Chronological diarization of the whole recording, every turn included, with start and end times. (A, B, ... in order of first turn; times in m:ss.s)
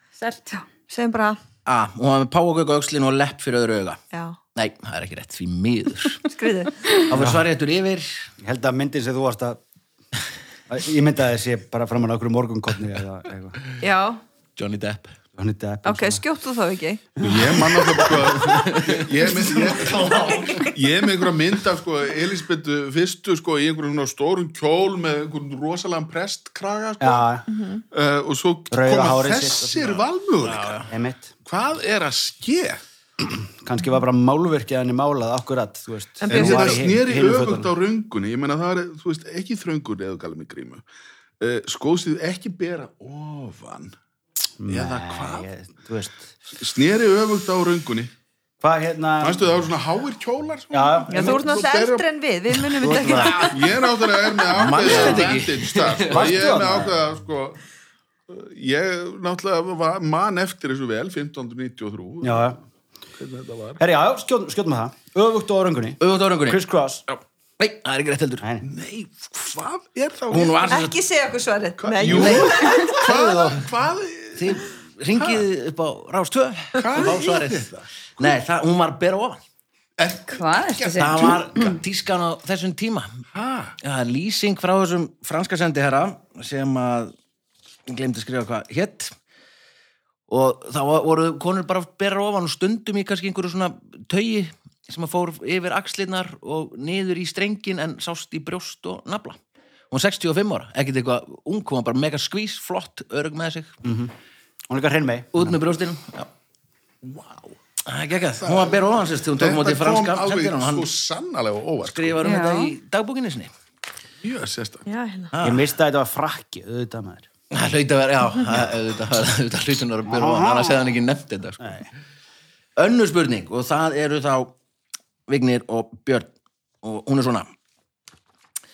0:00.2-0:00.7 A
0:00.9-0:01.4 B
0:01.6-0:04.0 C
0:04.1-0:04.4 B
0:04.6-0:06.3 C
0:06.3-0:06.9 B
0:07.1-0:08.3 C
0:07.1-0:07.4 D
0:08.4-0:09.6 D
0:10.7-0:13.6 D
0:13.8-0:14.2 B
0:14.6-0:15.2 C
0:15.4-0:16.2 D
0:15.8-0:17.2 B
0:17.2-0:30.8 E
0:17.2-0:18.1 D
0:18.6-0:19.0 C
0:20.3-0:20.7 B
0:27.0-0:27.4 D
0:27.5-0:27.8 B
0:28.7-0:30.0 D
0:30.4-0:30.9 C
0:30.9-0:31.3 D
0:31.4-0:32.8 E
0:33.2-0:37.7 D
0:36.3-0:40.8 E
0:36.3-0:36.8 B
0:41.4-0:44.0 E
0:44.6-0:46.4 D
0:44.7-0:45.5 E
0:46.6-0:48.1 E
0:48.6-0:49.4 D
0:49.2-0:52.1 E
0:50.7-0:51.4 D
0:51.1-0:53.5 B
0:52.8-0:53.5 D
0:52.9-0:53.6 C
0:53.4-0:57.6 E
0:54.5-0:56.4 C
0:56.1-0:57.0 D
0:58.3-1:02.6 E
1:02.2-1:02.6 D
1:03.2-1:03.8 E
1:03.8-1:07.0 D
1:06.0-1:08.5 C
1:08.6-1:10.8 E
1:10.3-1:10.9 C
1:10.7-1:13.0 B
1:11.8-1:14.6 E
1:12.0-1:13.7 C
1:14.4-1:17.7 C
1:15.2-1:15.4 E
1:16.8-1:18.3 E
1:18.2-1:19.4 C
1:20.0-1:21.8 E
1:20.3-1:21.7 A
1:21.0-1:23.2 C
1:23.3-1:23.8 E
1:23.8-1:27.1 C
1:27.9-1:29.2 C
1:30.3-1:39.4 C
1:39.9-1:43.8 C
1:43.8-1:44.1 D
1:44.7-1:45.6 D
1:45.3-1:46.3 C
1:47.0-1:47.6 E
1:47.9-1:50.9 C
1:48.4-1:52.2 E
1:51.8-1:53.5 C
1:52.2-1:52.7 A
1:54.2-1:54.9 E
1:54.9-1:55.3 B
1:55.3-1:55.7 C
1:55.4-1:57.3 D
1:57.5-2:01.8 C
2:00.1-2:00.8 D
2:01.6-2:01.9 D
2:02.8-2:04.5 C
2:05.3-2:06.3 C
2:06.8-2:07.5 C